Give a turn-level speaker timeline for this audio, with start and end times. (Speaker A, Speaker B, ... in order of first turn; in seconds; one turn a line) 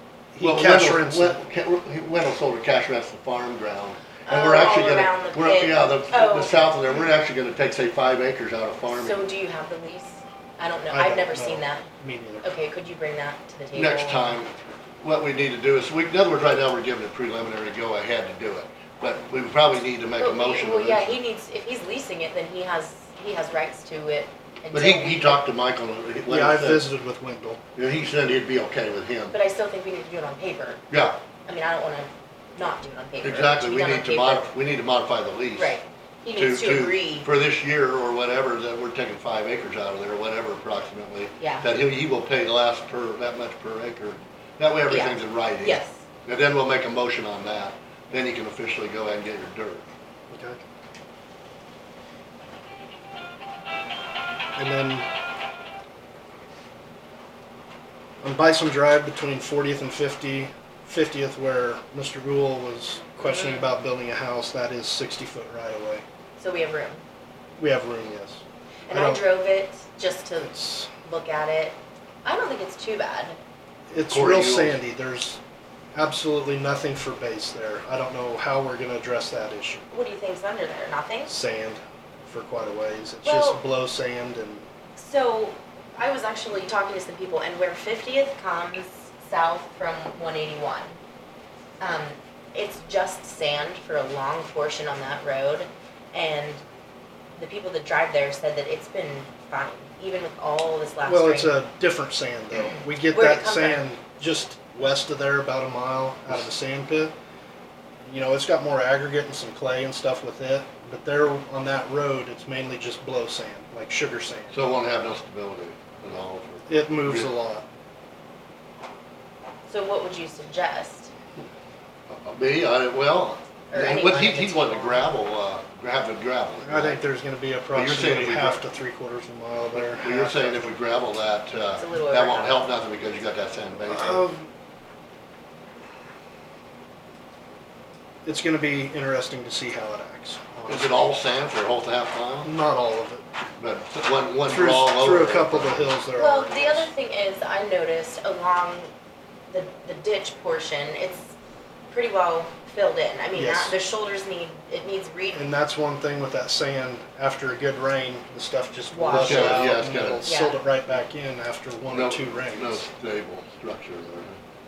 Speaker A: 0.3-1.4
Speaker B: 0.4-9.3
Speaker C: 4.2-6.8
Speaker C: 8.9-11.8
Speaker A: 10.9-12.5
Speaker C: 12.4-14.3
Speaker B: 13.7-21.1
Speaker C: 20.2-25.4
Speaker B: 24.7-26.9
Speaker A: 26.2-27.6
Speaker B: 27.8-29.4
Speaker C: 29.3-30.8
Speaker B: 30.9-31.2
Speaker C: 31.4-34.5
Speaker B: 33.2-35.8
Speaker C: 35.5-37.3
Speaker B: 36.3-49.9
Speaker C: 41.4-41.6
Speaker C: 44.9-46.0
Speaker A: 50.3-50.6
Speaker A: 54.5-55.1
Speaker A: 58.2-66.0
Speaker C: 63.2-63.7
Speaker C: 66.4-67.0
Speaker A: 67.6-69.2
Speaker C: 68.9-70.5
Speaker A: 70.4-70.9
Speaker C: 71.0-73.4
Speaker A: 73.9-75.4
Speaker B: 74.1-74.8
Speaker A: 75.9-79.8
Speaker C: 79.9-81.3
Speaker A: 81.3-84.7
Speaker C: 83.2-83.6
Speaker C: 85.0-91.0
Speaker C: 91.8-96.6
Speaker C: 97.4-101.6
Speaker A: 101.0-107.1
Speaker C: 102.5-103.8
Speaker A: 108.0-114.6
Speaker B: 114.5-117.3
Speaker A: 116.7-117.7
Speaker C: 119.7-121.1
Speaker B: 122.1-127.0
Speaker C: 123.7-125.1
Speaker A: 126.6-130.7
Speaker B: 127.7-128.6
Speaker B: 129.7-134.3
Speaker C: 131.8-132.7
Speaker A: 133.8-134.5
Speaker A: 138.2-141.1
Speaker B: 140.7-142.5
Speaker A: 142.4-143.2
Speaker B: 143.6-145.9
Speaker A: 144.5-146.9
Speaker C: 146.2-148.9
Speaker C: 149.5-151.3
Speaker C: 151.9-155.4
Speaker A: 153.3-153.8
Speaker A: 155.3-162.8
Speaker C: 158.9-159.7
Speaker B: 159.1-160.3
Speaker C: 160.2-160.6
Speaker B: 161.9-164.3